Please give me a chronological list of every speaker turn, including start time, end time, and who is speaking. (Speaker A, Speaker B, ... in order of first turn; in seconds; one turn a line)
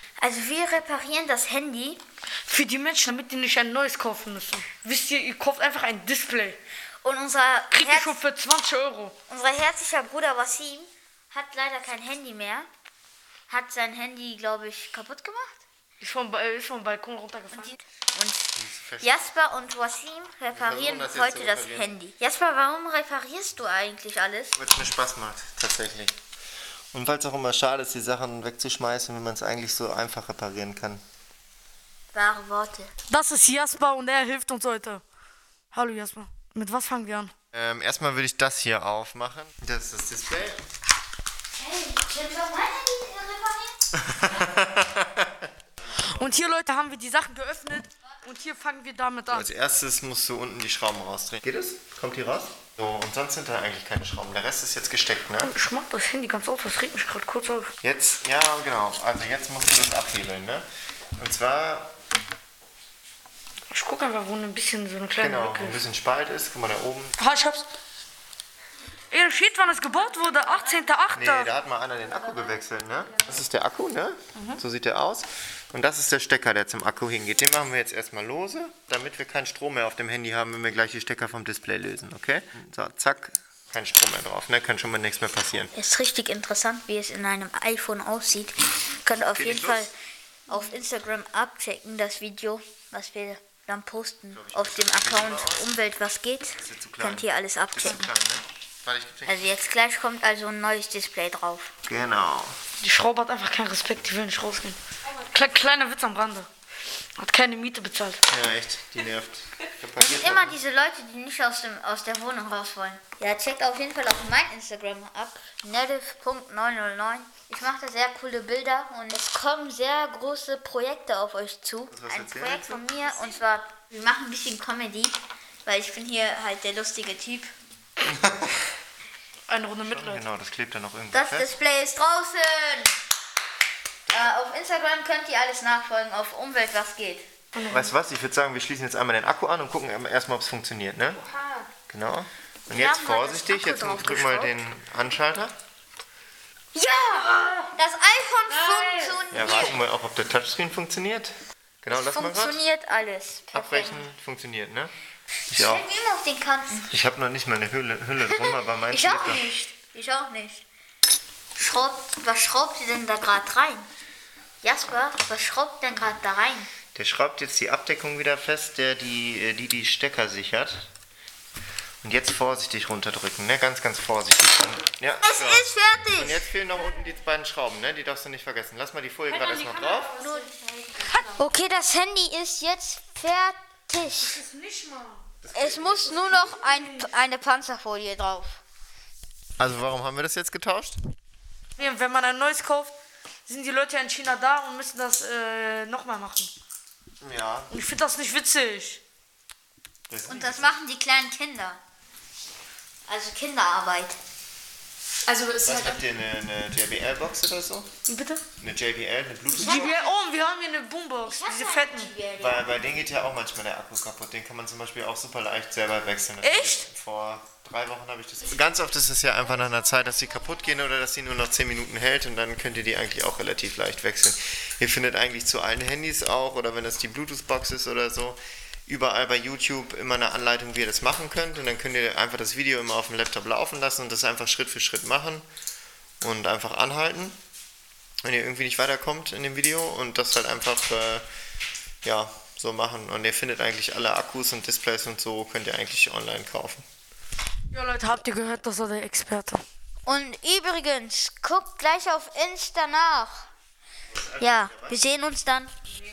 Speaker A: 0.2-2.0
Speaker B: 2.5-6.6
Speaker A: 7.0-8.2
Speaker B: 7.7-9.1
Speaker A: 9.3-12.7
Speaker A: 13.5-15.6
Speaker B: 16.0-17.8
Speaker A: 17.5-24.6
Speaker C: 18.6-19.2
Speaker C: 20.5-21.9
Speaker C: 24.6-26.1
Speaker C: 26.9-31.0
Speaker A: 32.1-32.9
Speaker B: 33.1-35.0
Speaker B: 35.7-37.3
Speaker C: 37.5-40.6
Speaker A: 41.5-43.8
Speaker C: 43.9-45.5
Speaker B: 45.9-49.5
Speaker C: 49.3-55.5
Speaker B: 55.4-57.7
Speaker C: 57.8-60.6
Speaker C: 61.2-61.9
Speaker B: 63.7-65.8
Speaker C: 65.2-67.2
Speaker B: 67.2-67.7
Speaker B: 69.1-71.5
Speaker C: 71.2-85.7
Speaker A: 85.8-90.0
Speaker C: 89.3-89.9
Speaker A: 90.5-98.1
Speaker C: 94.3-95.7
Speaker C: 96.6-99.6
Speaker A: 99.3-101.7
Speaker C: 101.8-102.5
Speaker B: 102.8-106.5
Speaker B: 107.2-108.2
Speaker C: 108.3-110.6
Speaker A: 110.0-127.5
Speaker C: 121.9-122.7
Speaker B: 122.8-123.3
Speaker C: 128.1-128.6
Speaker B: 129.5-130.2
Speaker C: 129.9-131.5
Speaker A: 131.1-132.9
Speaker A: 134.1-137.2
Speaker B: 137.5-137.9
Speaker C: 137.7-141.2
Speaker B: 141.4-141.6
Speaker C: 141.9-145.6
Speaker A: 142.7-144.5
Speaker A: 146.7-149.8
Speaker B: 148.7-149.1
Speaker C: 149.3-152.6
Speaker A: 151.9-154.0
Speaker C: 153.5-154.9
Speaker C: 155.5-155.9
Speaker A: 155.5-156.9
Speaker C: 156.9-159.5
Speaker A: 158.3-160.7
Speaker A: 161.6-163.9
Speaker A: 164.6-166.7
Speaker C: 166.9-170.9
Speaker C: 172.0-180.1
Speaker A: 175.2-176.5
Speaker B: 179.3-181.4
Speaker A: 180.2-184.4
Speaker B: 184.2-185.2
Speaker C: 185.4-186.3
Speaker A: 185.5-188.6
Speaker C: 189.6-191.0
Speaker B: 191.8-192.9
Speaker B: 193.5-196.5
Speaker C: 197.2-197.7
Speaker B: 197.7-199.0
Speaker C: 200.1-200.8
Speaker A: 200.2-201.8
Speaker A: 203.1-204.2
Speaker B: 205.3-205.7
Speaker C: 205.6-207.9
Speaker B: 208.1-208.4
Speaker C: 208.6-210.0
Speaker B: 209.5-212.1
Speaker A: 209.6-210.2
Speaker A: 211.2-212.7
Speaker C: 212.4-235.5
Speaker B: 216.4-216.8
Speaker C: 236.2-237.4
Speaker C: 238.2-241.3
Speaker C: 242.0-246.8
Speaker B: 247.7-249.6
Speaker A: 250.1-253.5
Speaker C: 254.1-255.0
Speaker A: 254.4-255.7